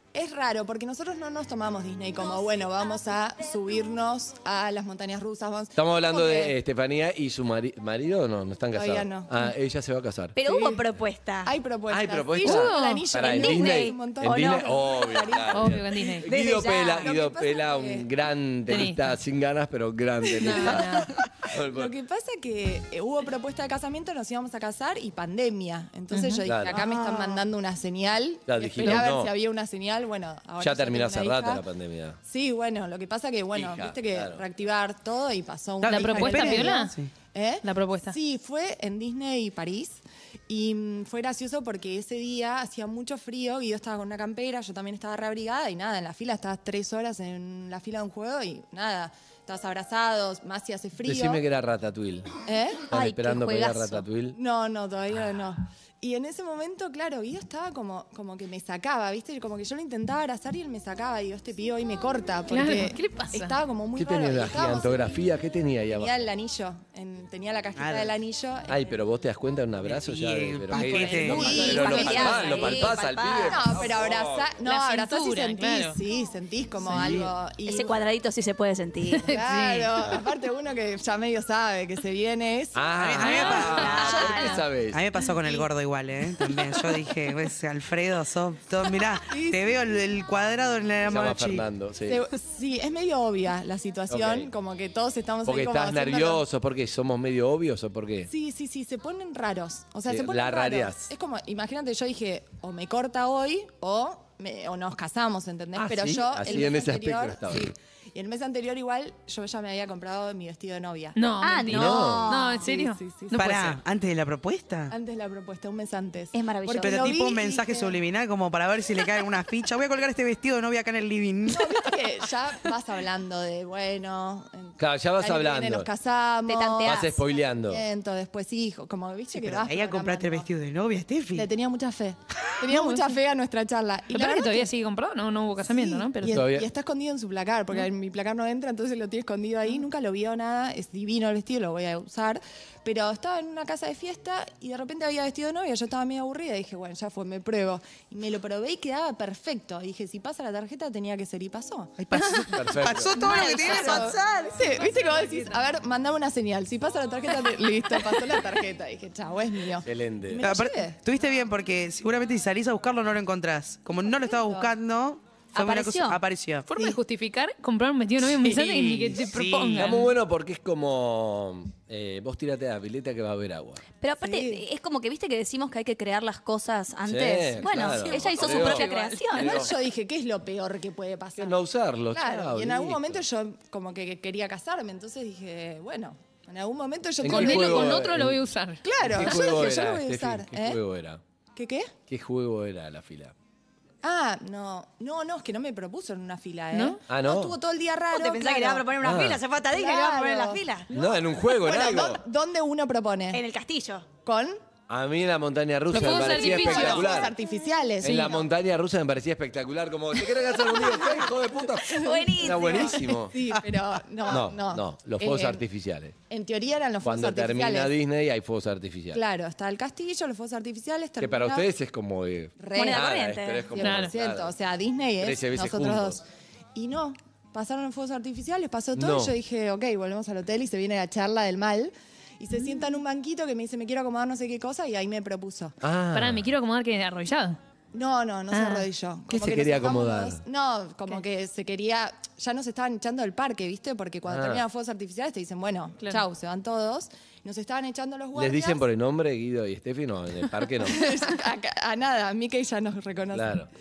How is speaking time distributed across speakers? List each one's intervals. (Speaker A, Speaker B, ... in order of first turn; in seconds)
Speaker A: 0.1-6.5, 8.7-9.3, 10.4-10.8, 11.4-15.8, 16.6-18.1, 20.2-31.6, 32.2-51.4, 52.4-52.9, 54.3-65.1, 65.9-68.7, 70.8-77.9, 79.2-83.0, 89.2-89.6, 92.1-96.4, 98.3-111.2, 112.6-113.8, 114.9-118.0, 121.5-127.0, 127.6-130.5, 131.3-134.7, 135.6-152.3, 153.5-161.0, 164.2-164.7, 174.2-174.6, 179.3-181.6, 182.1-188.1, 188.8-190.8, 191.6-191.9, 194.0-198.9, 199.7-203.4, 204.2-204.6, 206.0-208.4, 210.8-211.2, 211.8-215.6, 216.3-217.9, 219.1-221.7, 222.6-223.1, 223.7-226.2, 226.7-235.8, 237.9-248.8, 250.8-253.6
Speaker B: 5.8-10.3, 11.9-21.9, 26.4-26.8, 28.5-29.3, 30.6-32.2, 33.5-34.4, 51.0-52.3, 52.9-54.4, 64.0-66.2, 68.7-74.5, 76.9-77.3, 82.7-85.1, 91.0-92.2, 94.1-94.5, 95.4-98.3, 100.1-101.1, 105.7-107.7, 111.7-112.3, 124.8-125.9, 126.8-127.8, 136.2-136.7, 152.5-153.3, 159.8-160.4, 169.7-173.8, 177.1-179.7, 181.4-183.2, 187.2-188.4, 189.0-191.2, 192.1-193.3, 197.1-197.6, 199.0-199.4, 200.9-202.2, 204.9-207.3, 208.0-213.4, 214.2-216.2, 217.0-219.2, 221.2-224.5, 225.2-226.2, 228.9-229.3, 235.8-236.5, 239.3-240.4, 244.3-244.6, 248.3-251.1, 253.3-253.7
Speaker C: 10.3-11.5, 13.2-14.8, 16.2-17.1, 52.9-54.0, 71.1-73.8, 77.6-79.3, 83.5-84.7, 111.4-112.7, 116.3-117.1, 126.5-127.2, 153.1-154.7, 165.5-166.2, 174.0-179.7, 198.1-200.9, 203.3-204.1, 211.9-213.1, 222.8-223.8
Speaker D: 12.4-13.0, 15.5-16.3, 18.7-19.2, 20.4-21.1, 26.1-26.4, 35.9-36.9, 37.6-38.1, 62.5-63.5, 74.6-76.0, 79.1-79.9, 83.2-84.6, 111.2-113.5, 132.7-133.1, 134.1-136.4, 166.7-170.1, 177.8-179.3, 187.3-188.8, 196.7-197.0, 205.9-207.3, 208.0-208.4, 223.8-224.1, 236.1-237.6, 238.5-238.9
Speaker E: 26.7-27.4, 35.8-37.1, 67.8-68.1, 69.8-71.6, 83.0-84.3, 84.9-91.6, 113.3-114.9, 116.8-121.9, 129.4-131.5, 152.0-154.4, 160.4-166.9, 168.3-170.0, 177.8-178.1